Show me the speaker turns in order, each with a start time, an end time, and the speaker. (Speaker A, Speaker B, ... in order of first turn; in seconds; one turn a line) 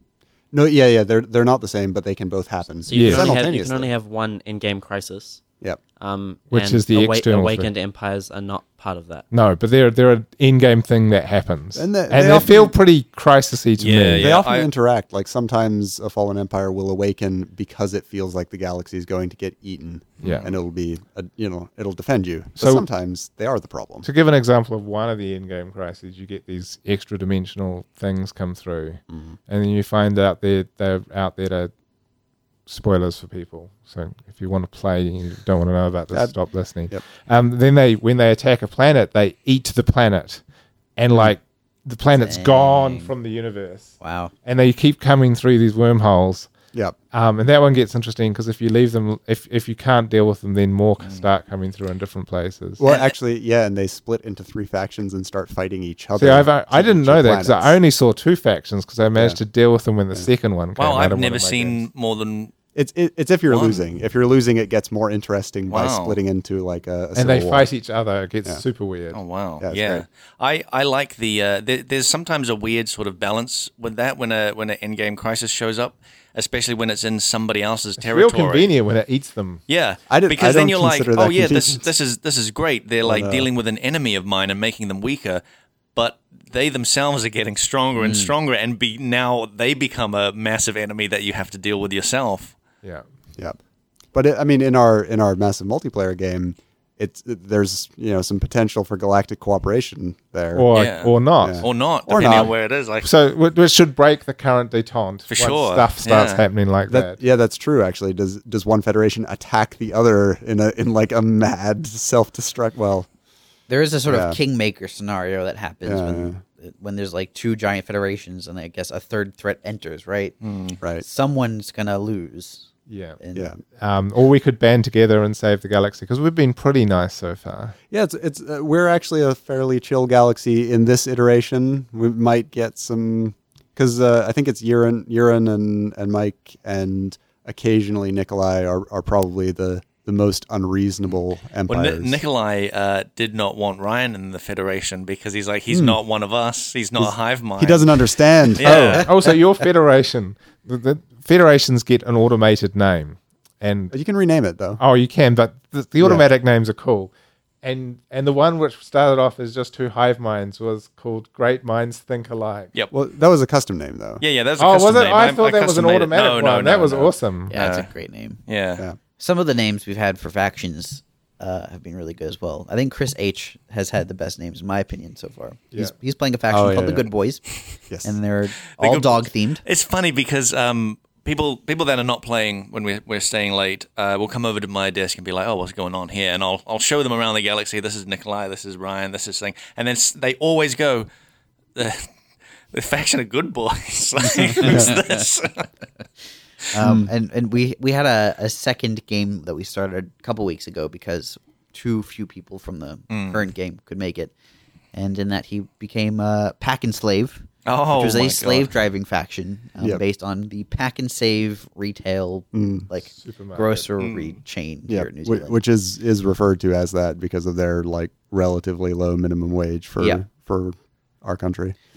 Speaker A: 0.5-3.9
Speaker B: 2.8-5.4
Speaker C: 2.9-3.4
Speaker B: 6.0-9.3
Speaker C: 6.5-7.7
Speaker C: 9.3-14.3
Speaker A: 11.7-12.7
Speaker D: 13.8-14.7
Speaker A: 14.2-24.1
Speaker D: 20.2-20.5
Speaker C: 20.2-20.5
Speaker C: 22.6-22.8
Speaker C: 24.0-31.7
Speaker C: 32.7-40.4
Speaker C: 41.0-46.5
Speaker E: 42.1-43.1
Speaker E: 44.0-44.3
Speaker C: 47.1-52.8
Speaker A: 52.8-57.8
Speaker D: 52.8-53.1
Speaker C: 56.2-61.8
Speaker D: 60.8-62.5
Speaker A: 62.7-67.7
Speaker D: 63.5-63.8
Speaker D: 65.7-66.2
Speaker C: 67.2-69.2
Speaker D: 69.1-78.7
Speaker A: 69.6-70.0
Speaker C: 78.0-79.6
Speaker D: 79.7-85.4
Speaker A: 80.1-81.8
Speaker A: 83.0-83.5
Speaker D: 85.9-92.5
Speaker E: 88.0-88.3
Speaker A: 94.1-100.7
Speaker C: 100.5-101.7
Speaker D: 100.7-103.1
Speaker A: 101.4-102.5
Speaker C: 102.2-102.5
Speaker C: 103.0-107.2
Speaker D: 105.3-106.4
Speaker A: 106.9-113.1
Speaker E: 113.7-120.3
Speaker A: 114.1-114.4
Speaker A: 115.8-116.4
Speaker D: 120.4-120.8
Speaker E: 121.0-123.5
Speaker C: 122.9-127.7
Speaker A: 123.3-123.6
Speaker A: 127.9-142.2
Speaker D: 141.7-149.1
Speaker A: 145.7-146.0
Speaker A: 147.0-149.0
Speaker C: 148.6-153.9
Speaker A: 153.9-154.8
Speaker C: 154.8-157.1
Speaker A: 156.0-156.2
Speaker C: 157.6-162.7
Speaker A: 162.9-164.2
Speaker D: 164.2-167.9
Speaker C: 164.6-167.6
Speaker E: 167.5-168.4
Speaker D: 168.5-168.8
Speaker E: 169.2-177.4
Speaker A: 176.5-177.1
Speaker A: 177.9-178.1
Speaker E: 178.0-179.6
Speaker D: 178.8-191.1
Speaker D: 191.7-192.1
Speaker D: 192.7-195.7
Speaker E: 194.5-195.0
Speaker A: 194.6-194.9
Speaker E: 196.7-204.3
Speaker A: 196.8-197.1
Speaker D: 203.1-203.4
Speaker E: 204.9-215.6
Speaker D: 207.6-208.7
Speaker A: 212.5-212.9
Speaker C: 213.0-213.8
Speaker D: 214.0-214.4
Speaker A: 214.9-221.8